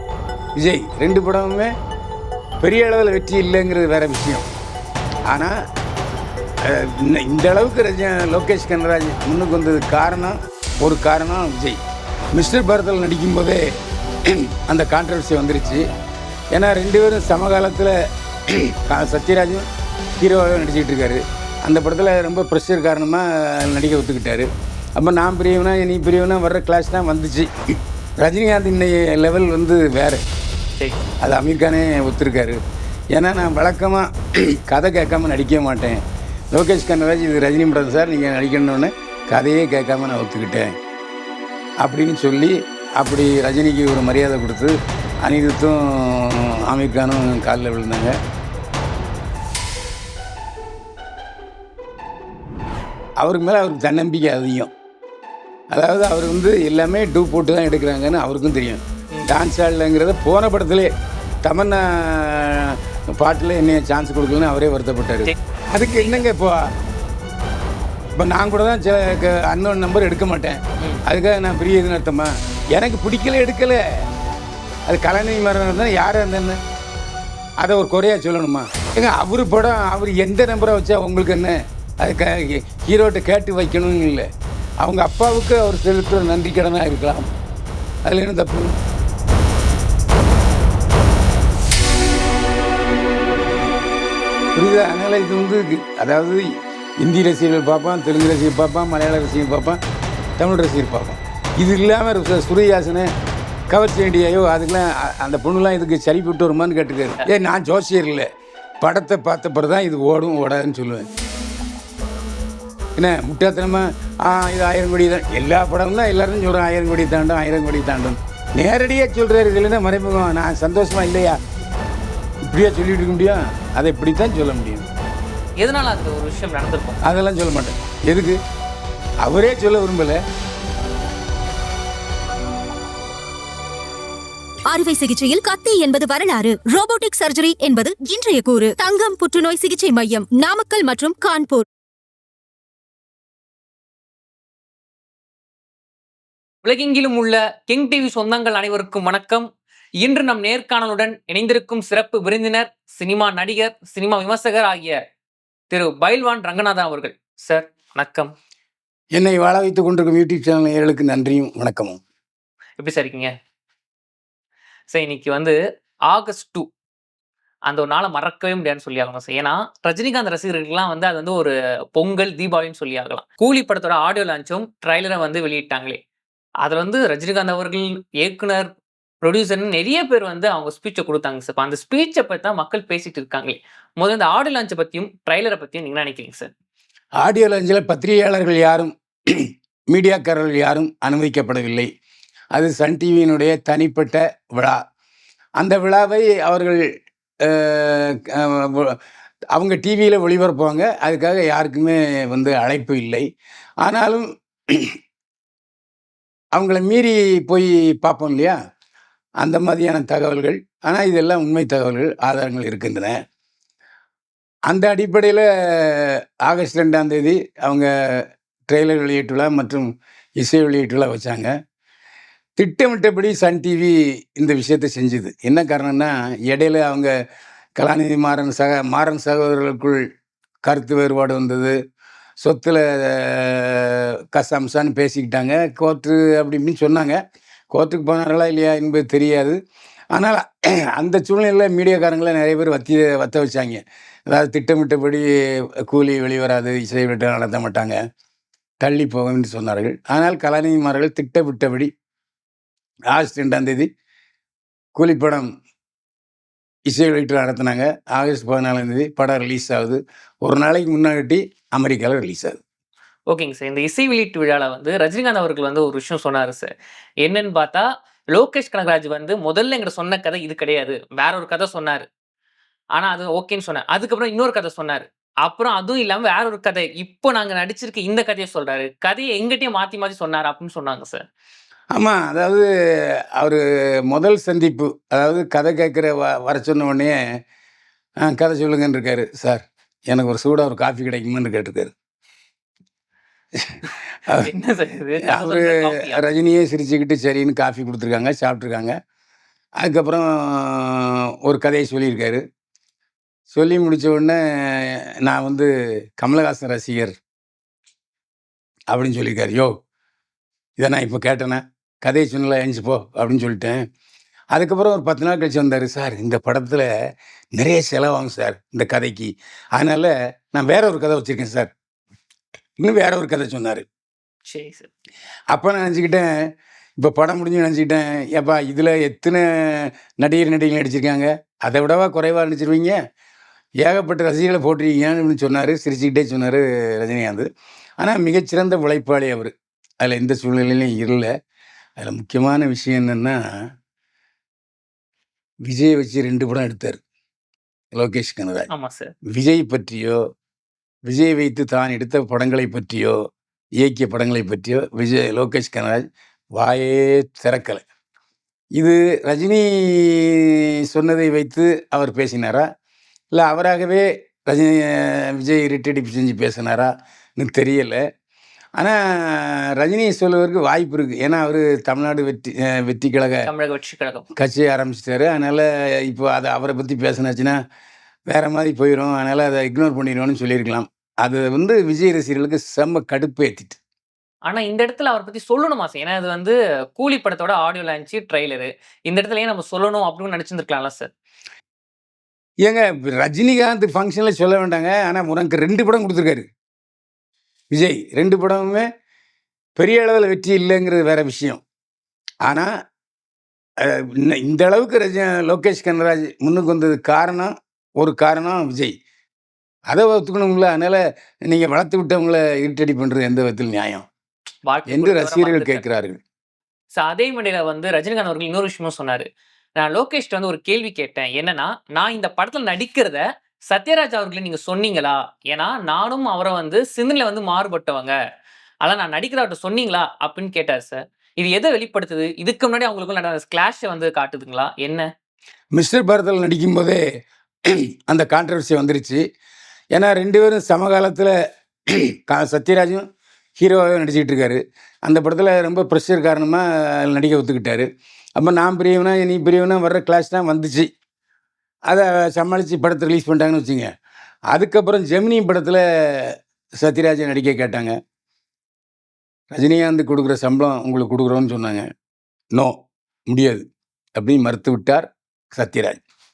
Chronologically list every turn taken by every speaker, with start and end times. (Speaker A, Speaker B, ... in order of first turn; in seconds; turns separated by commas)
Speaker A: 0.6-1.7, Speaker A: 2.6-4.5, Speaker A: 5.3-5.5, Speaker A: 6.6-11.8, Speaker A: 12.3-13.6, Speaker A: 14.3-15.8, Speaker A: 16.5-17.9, Speaker A: 18.8-19.6, Speaker A: 20.2-24.5, Speaker A: 25.0-27.5, Speaker A: 28.2-30.2, Speaker B: 30.8-31.1, Speaker A: 31.2-32.6, Speaker A: 33.1-34.1, Speaker A: 34.7-36.0, Speaker A: 36.5-40.7, Speaker A: 41.8-48.1, Speaker A: 53.2-54.7, Speaker A: 55.7-60.9, Speaker A: 61.4-66.6, Speaker B: 65.8-66.2, Speaker A: 68.2-73.8, Speaker A: 74.9-76.6, Speaker A: 77.6-84.3, Speaker A: 84.8-87.3, Speaker A: 88.1-88.7, Speaker A: 94.5-96.4, Speaker A: 97.0-99.8, Speaker A: 100.4-103.1, Speaker A: 103.7-108.3, Speaker A: 108.8-111.1, Speaker A: 113.0-121.4, Speaker A: 122.5-124.9, Speaker B: 125.6-127.0, Speaker A: 127.0-128.4, Speaker A: 129.2-130.2, Speaker C: 134.7-141.7, Speaker B: 146.6-149.5, Speaker B: 150.0-155.0, Speaker B: 155.7-158.3, Speaker A: 159.2-162.0, Speaker B: 162.8-163.3, Speaker B: 164.9-165.6, Speaker B: 166.1-166.7, Speaker B: 167.7-176.0, Speaker B: 176.6-186.5, Speaker A: 187.2-191.9, Speaker A: 192.5-194.8, Speaker A: 195.6-196.8, Speaker A: 197.5-199.0, Speaker A: 199.6-203.2, Speaker A: 203.8-204.9, Speaker A: 206.5-208.6, Speaker A: 209.4-213.2, Speaker A: 214.7-217.9, Speaker A: 218.7-219.9, Speaker A: 220.4-221.5, Speaker A: 222.6-227.1, Speaker A: 227.8-230.0, Speaker A: 230.6-231.7, Speaker A: 232.4-237.2, Speaker A: 237.7-239.6, Speaker A: 240.1-240.4, Speaker A: 241.0-245.2, Speaker A: 245.9-248.0, Speaker A: 248.8-251.9, Speaker A: 253.1-253.9, Speaker A: 254.9-255.5, Speaker A: 256.9-262.6, Speaker B: 263.3-266.7, Speaker B: 267.2-272.1, Speaker B: 272.9-281.2, Speaker A: 281.9-282.7, Speaker A: 283.4-287.2, Speaker A: 288.2-291.9, Speaker A: 293.6-294.5, Speaker B: 294.3-296.2, Speaker A: 295.3-298.9, Speaker A: 299.8-302.4, Speaker A: 303.5-305.7, Speaker A: 306.2-307.1, Speaker A: 308.9-309.8, Speaker A: 310.8-313.8, Speaker A: 314.5-316.9, Speaker A: 317.6-321.7, Speaker A: 322.8-323.9, Speaker B: 324.5-324.9, Speaker A: 325.5-326.3, Speaker A: 327.0-333.0, Speaker A: 333.8-337.5, Speaker A: 338.0-341.3, Speaker A: 342.0-343.4, Speaker A: 345.7-347.0, Speaker A: 347.9-348.7, Speaker B: 348.7-349.1, Speaker A: 349.3-350.2, Speaker A: 351.1-353.2, Speaker A: 353.8-356.1, Speaker A: 356.6-357.8, Speaker A: 358.8-362.6, Speaker A: 363.3-368.0, Speaker A: 368.8-373.5, Speaker B: 373.5-374.3, Speaker A: 374.4-377.6, Speaker A: 378.3-383.8, Speaker B: 384.5-391.1, Speaker A: 392.6-396.4, Speaker A: 397.7-398.9, Speaker A: 399.8-401.6, Speaker A: 403.8-408.9, Speaker A: 409.9-414.1, Speaker B: 414.7-415.8, Speaker A: 414.9-416.2, Speaker B: 416.9-428.1, Speaker B: 428.8-435.1, Speaker A: 435.8-437.0, Speaker A: 438.1-439.2, Speaker A: 439.9-441.3, Speaker A: 441.9-443.1, Speaker A: 443.6-447.9, Speaker A: 448.4-450.9, Speaker A: 451.9-453.9, Speaker A: 454.5-457.9, Speaker A: 459.5-461.9, Speaker A: 463.3-463.6, Speaker A: 464.2-466.0